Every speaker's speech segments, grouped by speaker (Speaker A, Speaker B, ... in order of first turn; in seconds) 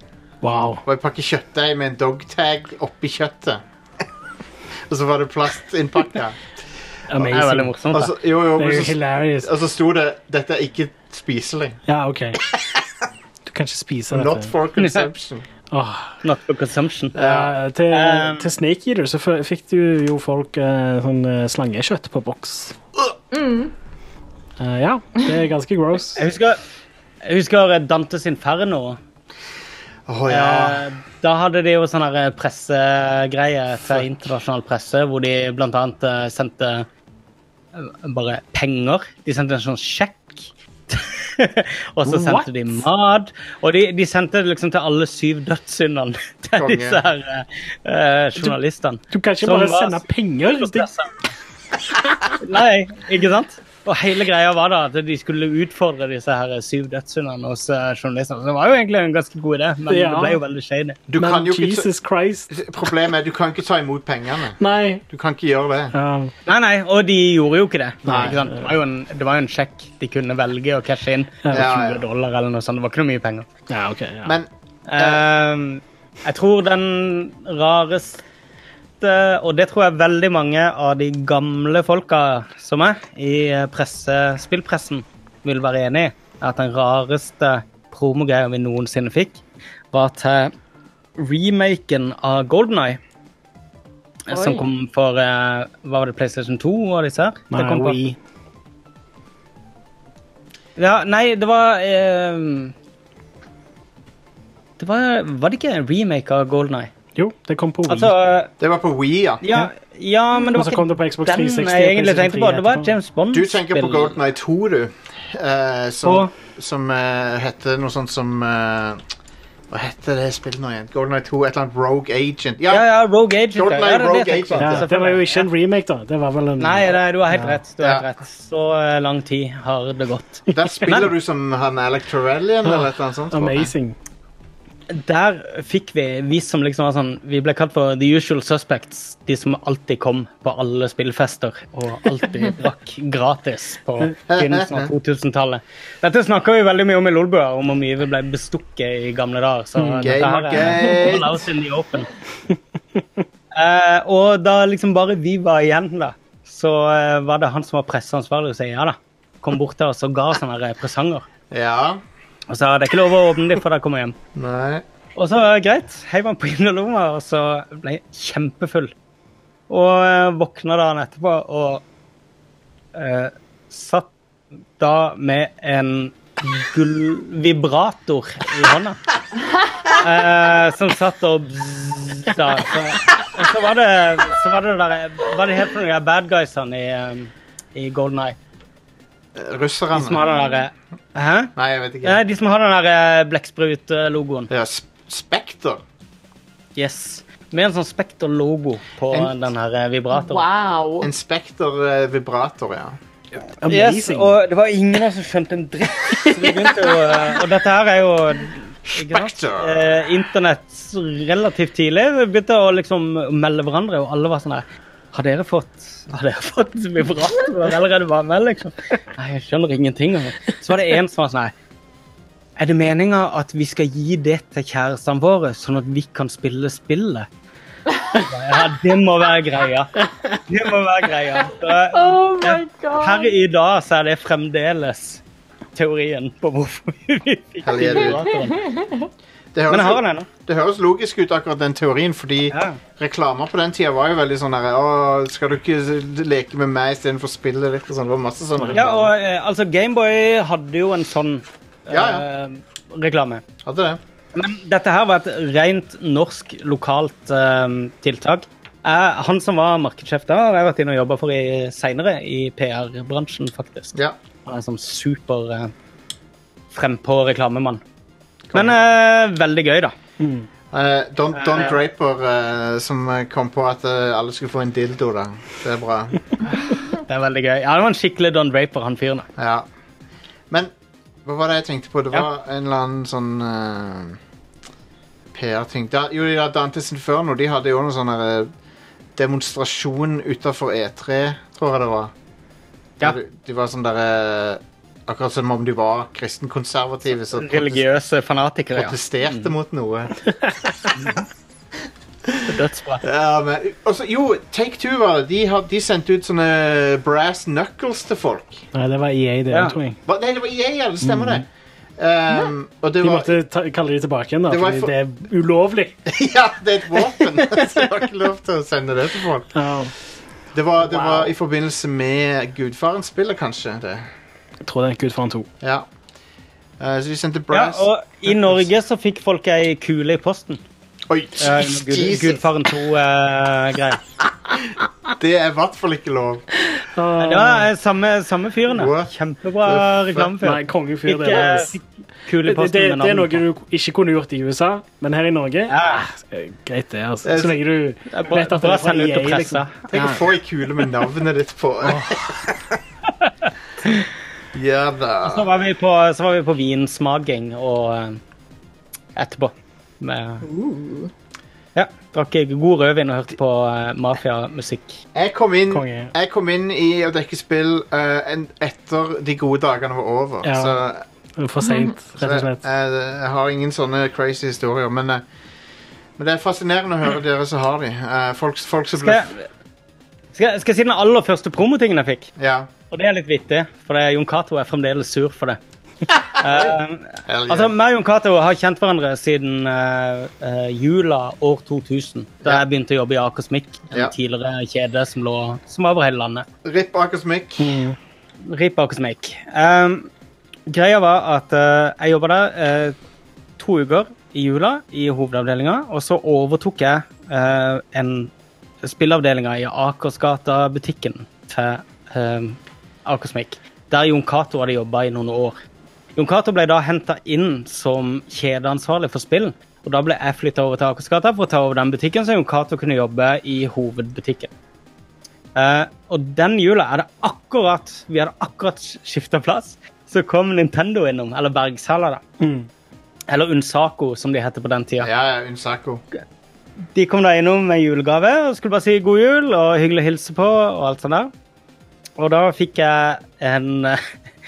Speaker A: 0.4-0.8, 7.1-7.7, 8.5-9.5, 11.9-12.4, 13.4-14.5, 15.7-16.2, 17.2-22.8, 24.6-26.2, 42.0-42.5, 49.1-50.9, 59.9-60.4, 61.1-62.5, 64.6-65.0, 65.9-66.3, 68.0-68.7, 71.4-71.7, 73.7-74.3, 97.5-98.2, 107.2-108.1, 110.5-112.9, 124.6-127.6, 132.6-133.9, 149.8-150.1, 203.6-204.3, 270.2-270.5, 308.7-310.0, 311.0-311.4, 313.0-316.0, 317.4-317.7, 319.5-319.9, 324.6-325.5, 336.9-337.7, 340.4-341.8, 342.4-350.2, 351.9-352.2, 365.7-366.1, 370.4-370.8, 371.4-372.6, 397.6-398.0, 432.4-432.7
Speaker B: 0.8-3.6, 4.9-6.6, 7.9-11.8, 12.5-12.9, 14.1-15.4, 17.1-17.5, 30.1-30.9, 46.6-47.0, 61.1-61.9, 62.5-64.6, 65.1-65.9, 68.0-68.4, 71.5-72.0, 74.2-75.2, 108.6-109.4, 113.3-119.0, 119.7-122.9, 123.5-124.8, 127.8-128.1, 130.5-133.7, 144.3-144.9, 150.0-151.4, 161.5-162.0, 164.3-164.8, 189.3-190.2, 191.6-192.2, 194.5-195.8, 201.0-203.0, 208.8-210.1, 237.6-238.4, 239.5-249.1, 251.9-252.2, 253.6-254.0, 268.5-268.8, 270.7-276.4, 279.4-279.7, 281.2-284.2, 285.3-288.5, 289.1-292.1, 293.0-297.8, 298.7-300.1, 303.0-308.6, 310.1-311.4, 312.0-313.4, 314.5-314.9, 316.1-319.5, 320.5-324.1, 325.6-325.9, 326.8-328.6, 331.1-332.4, 335.1-336.4, 338.7-340.3, 347.2-347.6, 349.9-352.8, 354.5-355.5, 365.1-371.0, 372.2-375.2, 376.2-379.3, 382.4-382.7, 386.4-386.7, 387.2-387.7, 396.6-397.8, 435.0-436.0
Speaker C: 7.3-8.1, 14.8-15.1, 16.2-17.3, 17.9-18.5, 26.1-26.6, 27.2-29.0, 30.3-36.9, 37.7-51.3, 52.4-61.0, 66.5-73.5, 74.9-78.2, 79.0-89.4, 89.9-90.5, 91.2-93.0, 94.3-98.0, 100.8-102.7, 104.8-106.9, 107.9-108.5, 109.4-114.2, 116.0-116.3, 122.7-125.5, 126.6-131.1, 134.9-152.1, 153.5-161.2, 162.5-164.2, 165.2-168.9, 169.7-171.8, 172.9-174.1, 174.8-179.0, 179.9-188.3, 189.9-191.5, 192.0-194.5, 196.8-200.4, 203.7-221.5, 222.6-227.3, 228.2-229.9, 230.5-235.2, 235.7-238.7, 239.7-240.3, 242.5-242.8, 248.7-253.4, 254.3-265.7, 266.7-267.8, 268.5-269.9, 271.3-271.8, 276.6-279.3, 297.3-299.5, 300.9-301.2, 302.5-303.0, 309.5-309.8, 327.5-330.6, 331.4-334.0, 337.2-343.4, 345.7-346.0, 348.1-349.9, 353.2-354.0, 355.2-358.2, 359.1-360.4, 361.7-365.0, 378.9-379.4, 380.3-382.3, 382.9-385.6, 386.3-396.4, 398.4-400.1, 400.7-402.9, 403.6-408.3, 408.8-415.6, 416.1-424.5, 425.5-432.2, 433.3-435.1, 436.9-441.3, 442.2-444.0
Speaker D: 23.3-23.7, 94.3-94.7, 190.2-190.6, 200.1-201.1, 231.9-233.3, 238.3-239.1, 360.4-361.1, 371.6-371.9